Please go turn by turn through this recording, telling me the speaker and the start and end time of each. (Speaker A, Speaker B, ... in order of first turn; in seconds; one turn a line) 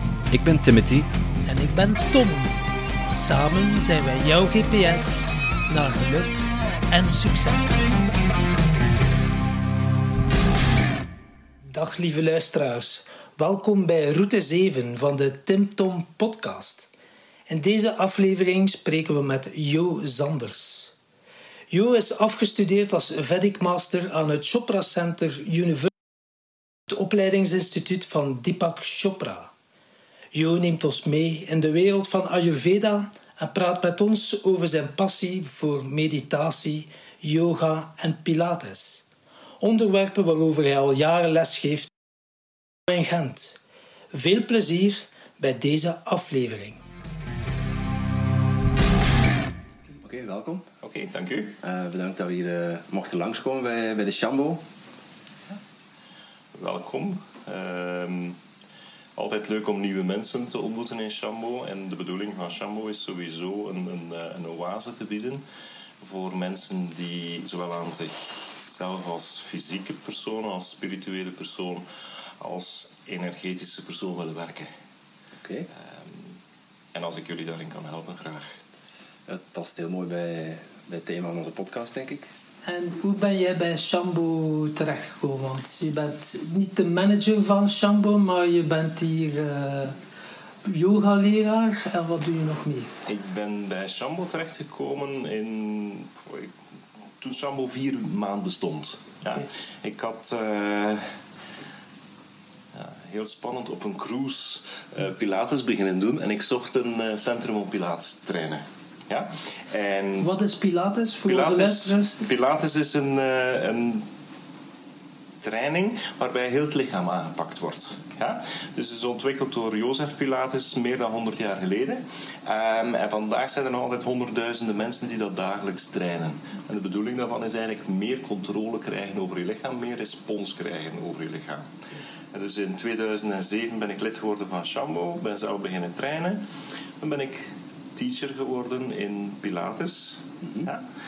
Speaker A: 0.3-1.1
Speaker B: 1.4-2.5
Speaker B: 3.1-6.4
Speaker B: 6.9-8.0
Speaker B: 11.7-16.9
Speaker B: 17.5-20.9
Speaker B: 21.7-25.9
Speaker B: 26.9-29.5
Speaker B: 30.3-39.0
Speaker B: 39.6-41.9
Speaker B: 42.9-43.6
Speaker B: 44.1-46.8
Speaker A: 50.0-50.6
Speaker C: 50.8-51.5
Speaker A: 51.6-54.6
Speaker C: 56.5-58.4
Speaker C: 59.2-65.4
Speaker C: 66.0-71.8
Speaker C: 72.4-74.7
Speaker A: 75.4-75.7
Speaker C: 75.7-76.4
Speaker C: 76.9-78.6
Speaker A: 79.3-82.3
Speaker B: 82.6-90.0
Speaker B: 90.6-92.9
Speaker C: 93.0-96.5
Speaker C: 97.2-101.1
Speaker C: 102.7-110.3
Speaker B: 110.2-112.2
Speaker C: 111.2-114.0
Speaker C: 115.4-131.8
Speaker C: 132.3-136.4
Speaker C: 137.0-140.8